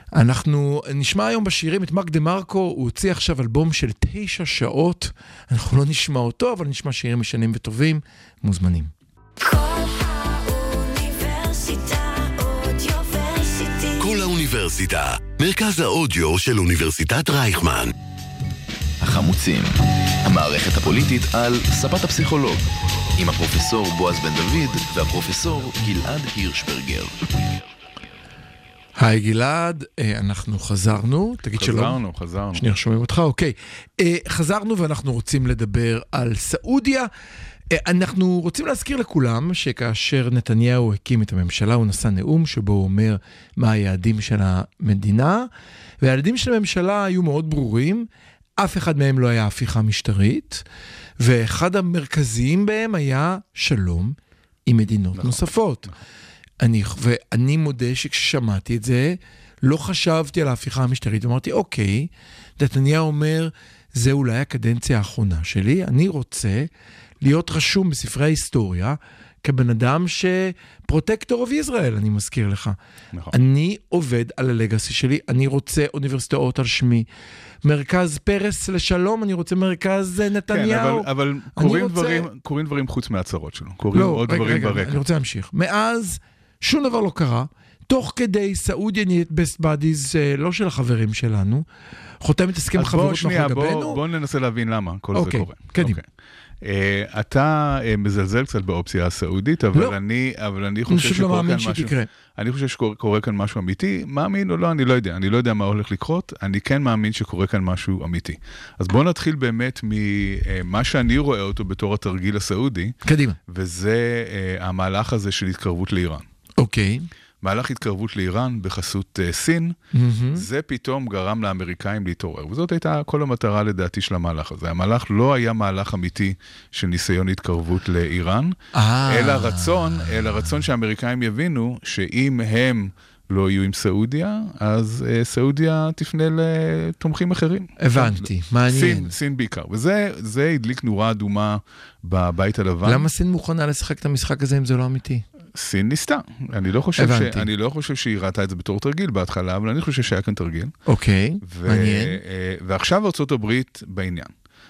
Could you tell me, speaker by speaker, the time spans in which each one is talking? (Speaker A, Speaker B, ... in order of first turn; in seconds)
Speaker A: 0.1-8.9, 29.0-32.0, 32.5-37.1, 37.7-45.5, 46.0-48.1, 48.6-50.6, 51.2-55.9, 56.6-66.7, 67.2-72.8, 73.3-77.1, 77.6-82.3, 83.9-91.7, 92.2-94.0, 95.1-96.0, 100.9-102.1, 113.0-113.4, 116.6-117.1, 119.9-120.5, 128.7-130.3, 137.8-139.1, 142.8-145.2, 147.0-147.5, 150.9-152.2
Speaker B: 9.4-14.2
Speaker C: 14.0-17.9
Speaker D: 19.0-22.6, 23.2-27.3
Speaker E: 31.5-32.6, 55.1-56.0, 80.5-85.0, 92.8-96.0, 96.6-116.3, 117.4-119.8, 120.3-143.1, 145.6-150.7, 151.4-154.3